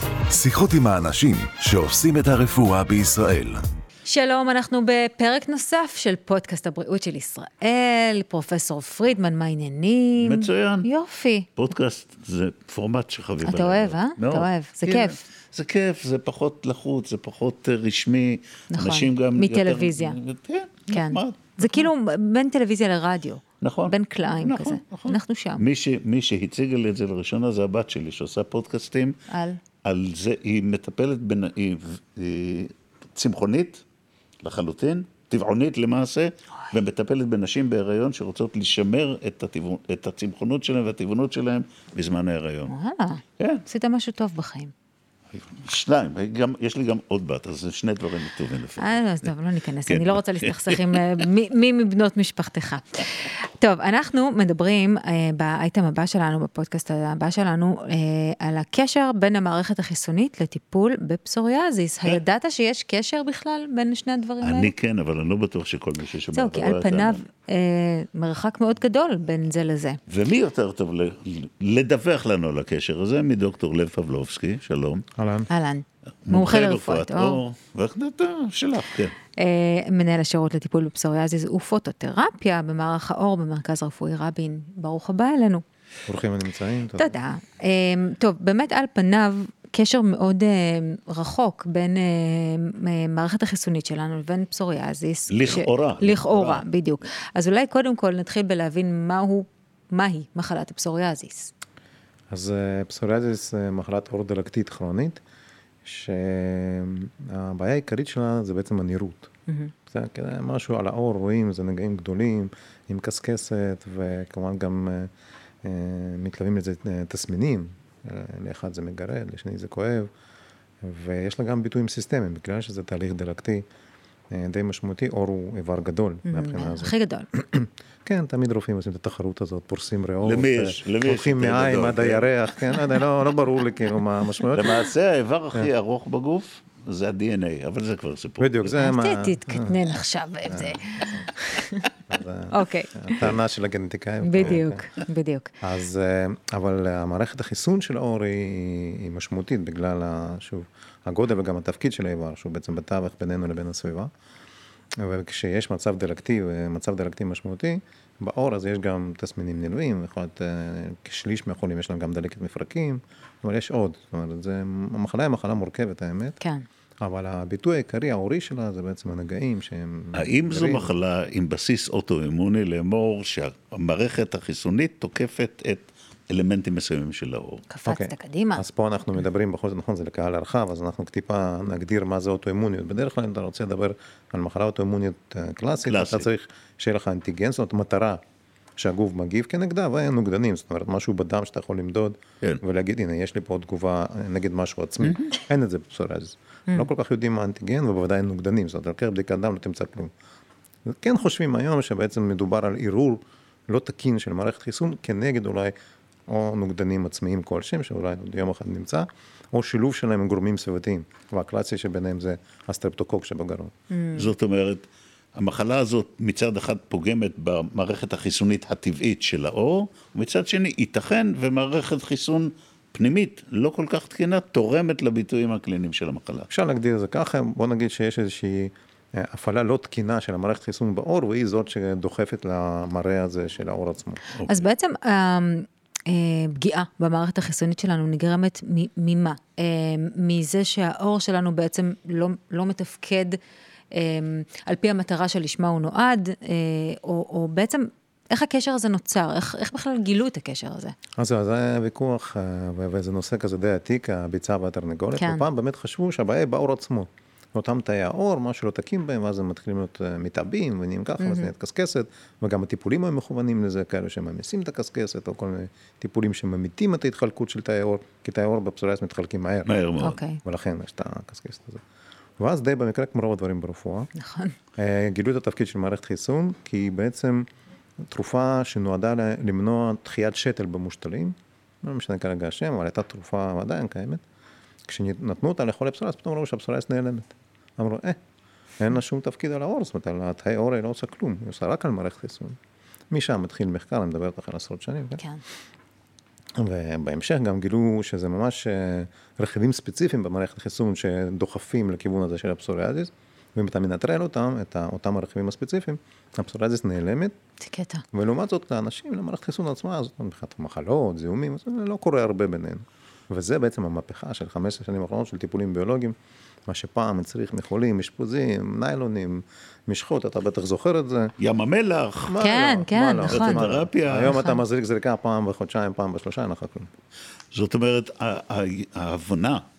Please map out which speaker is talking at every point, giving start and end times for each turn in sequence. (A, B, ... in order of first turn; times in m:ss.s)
0:00.3-0:03.7 A
0:04.0-0:11.5 B
0:10.2-0:10.9 C
0:11.6-0:21.9 C
0:13.4-0:15.2 B
0:18.7-0:20.2 B
0:20.9-0:25.6 B
0:23.6-0:29.2 C
0:29.3-0:29.6 B
0:29.8-0:33.8 C
0:34.4-0:42.7 C
0:42.7-0:44.7 B
0:45.4-0:49.3 C
0:48.8-1:04.7 B
0:49.9-0:51.3 C
1:04.4-1:07.2 C
1:06.3-1:10.0 B
1:10.1-1:15.0 C
1:15.2-1:15.5 D
1:15.5-1:17.4 B
1:16.3-1:19.2 C
1:19.4-1:25.6 B
1:26.1-1:27.2 D
1:27.0-1:41.5 B
1:35.3-1:36.6 C
1:42.3-1:45.2 D
1:45.8-1:49.3 D
1:49.5-1:49.7 B
1:49.9-1:55.1 D
1:55.6-2:00.1 D
2:00.8-2:03.6 D
2:04.3-2:14.8 D
2:06.3-2:07.3 B
2:10.2-2:12.3 C
2:14.5-2:18.7 C
2:18.4-2:19.8 D
2:18.8-2:21.9 B
2:20.5-2:21.3 D
2:22.1-2:24.8 D
2:22.5-2:23.1 B
2:24.2-2:25.5 B
2:25.6-2:34.1 D
2:35.0-2:46.4 D
2:46.4-2:46.7 B
2:47.0-2:50.9 D
2:50.2-2:57.6 C
2:57.7-2:58.6 B
2:57.9-3:08.2 D
3:05.8-3:06.3 C
3:08.8-3:20.1 D
3:15.0-3:15.3 C
3:20.9-3:25.8 D
3:26.3-3:33.7 D
3:33.9-3:34.3 B
3:34.2-3:46.5 C
3:46.5-3:54.2 D
3:54.4-3:54.6 C
3:54.5-4:03.4 B
4:03.9-4:11.0 B
4:11.2-4:29.7 D
4:15.2-4:15.5 B
4:21.2-4:21.5 B
4:29.7-4:30.2 C
4:30.0-4:30.4 B
4:30.4-4:31.8 D
4:32.4-4:34.1 D
4:34.2-4:34.6 B
4:34.8-4:37.5 D
4:38.1-4:44.2 D
4:44.9-4:48.2 D
4:48.8-4:52.6 D
4:53.1-4:55.2 D
4:56.6-5:07.3 D
5:07.6-5:08.0 B
5:08.1-5:16.2 D
5:16.7-5:21.3 D
5:21.4-5:22.4 C
5:22.3-5:26.9 D
5:22.4-5:23.7 B
5:23.3-5:24.3 C
5:24.3-5:24.6 B
5:27.5-5:29.6 C